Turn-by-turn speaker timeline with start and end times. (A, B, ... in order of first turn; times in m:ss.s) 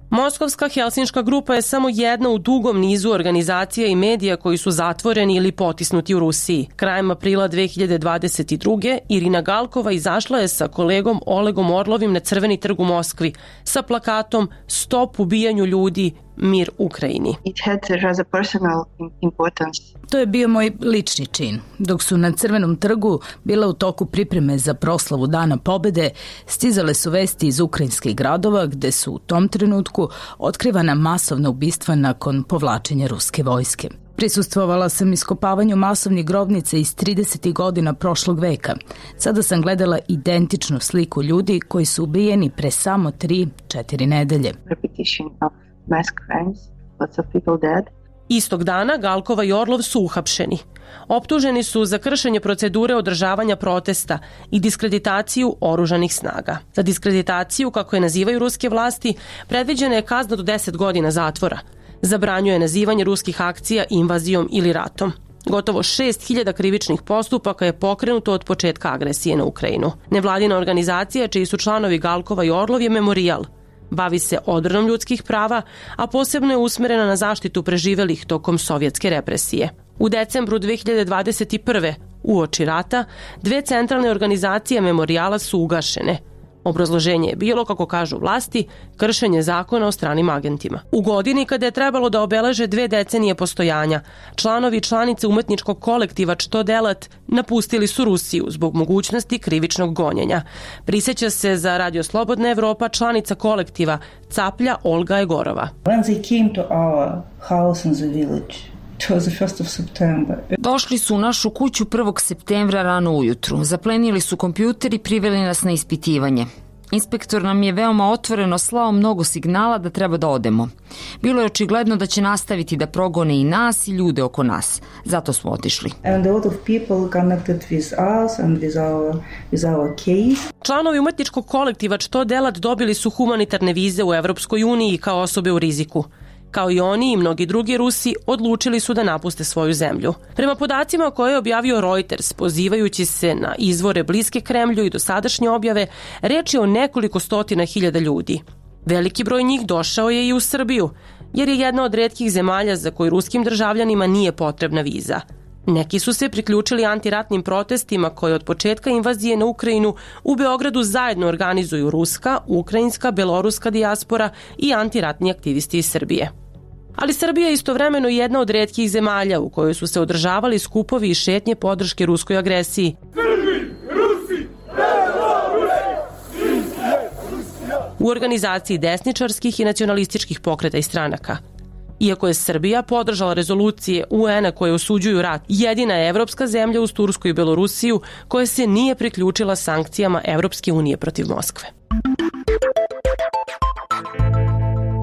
0:00.1-0:17.4 A
0:17.4-0:19.9 B
0:20.1-0:44.6 C
0:44.6-0:47.9 B
0:48.3-1:45.7 A
1:45.8-1:50.5 D
1:50.6-2:00.7 E
2:01.2-2:05.9 E
2:06.0-2:10.4 D
2:10.6-2:46.3 A
2:47.0-2:53.0 A
2:58.0-3:01.4 A
3:02.0-3:11.7 A